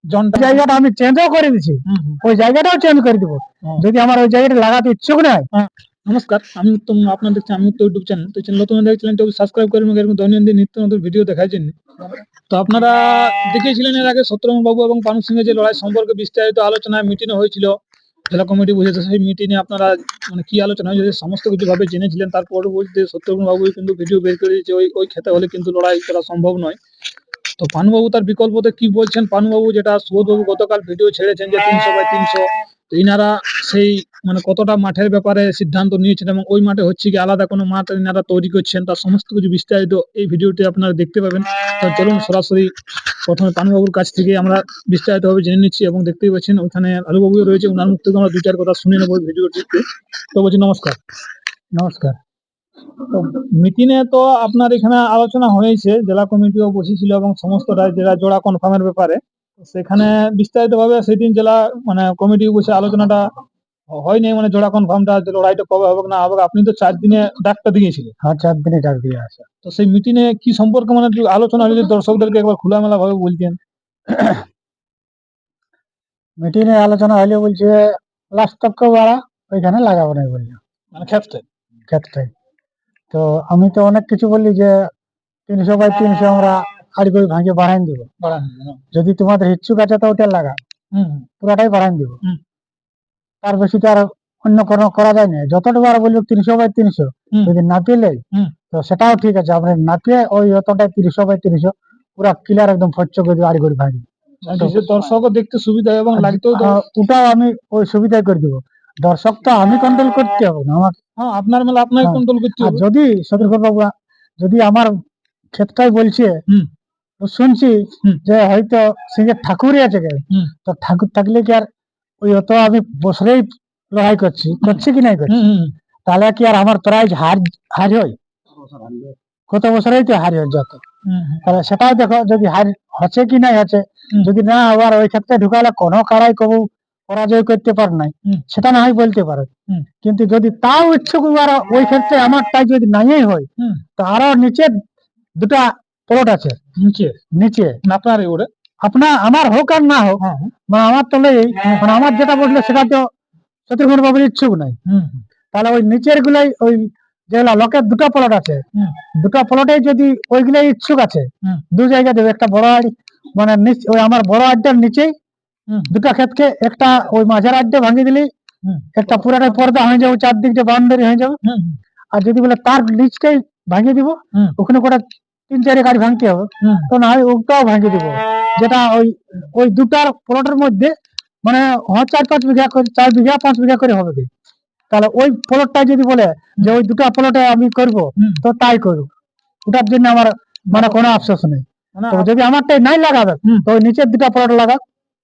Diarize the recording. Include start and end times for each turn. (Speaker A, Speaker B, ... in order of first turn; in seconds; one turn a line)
Speaker A: 0.1-0.6
Speaker B: 0.3-5.5
Speaker A: 1.9-2.2
Speaker A: 5.5-17.8
Speaker A: 18.3-26.8
Speaker A: 27.6-42.7
Speaker A: 43.3-51.0
Speaker B: 51.8-52.1
Speaker A: 53.0-63.3
Speaker A: 63.9-68.1
Speaker B: 68.2-69.5
Speaker A: 69.6-73.6
Speaker B: 76.4-80.6
Speaker A: 80.9-81.4
Speaker B: 81.9-82.3
Speaker B: 83.1-84.9
Speaker B: 85.5-88.1
Speaker A: 88.2-88.8
Speaker B: 88.9-90.6
Speaker A: 90.9-91.2
Speaker B: 91.4-92.2
Speaker B: 93.4-104.8
Speaker A: 104.5-106.8
Speaker B: 106.2-111.0
Speaker A: 111.2-112.8
Speaker B: 112.0-113.9
Speaker B: 114.4-115.0
Speaker B: 115.5-116.4
Speaker B: 117.2-121.7
Speaker B: 122.2-125.4
Speaker A: 124.6-125.7
Speaker B: 126.0-128.2
Speaker A: 128.6-129.1
Speaker B: 129.5-130.8
Speaker A: 131.1-131.5
Speaker B: 131.4-139.5
Speaker B: 140.0-144.7
Speaker B: 145.4-146.6
Speaker A: 146.8-147.2
Speaker B: 147.3-147.8
Speaker A: 147.8-148.5
Speaker B: 148.8-153.1
Speaker A: 150.2-150.5
Speaker B: 153.7-154.8
Speaker A: 154.8-155.2
Speaker B: 155.5-158.6
Speaker B: 159.1-165.1
Speaker B: 165.9-168.3
Speaker A: 168.6-169.7
Speaker B: 168.9-171.4
Speaker A: 171.4-171.8
Speaker B: 172.1-180.9
Speaker A: 176.6-176.9
Speaker B: 181.4-184.3
Speaker B: 184.9-189.1
Speaker B: 189.7-194.8
Speaker A: 190.7-191.2
Speaker A: 191.9-192.3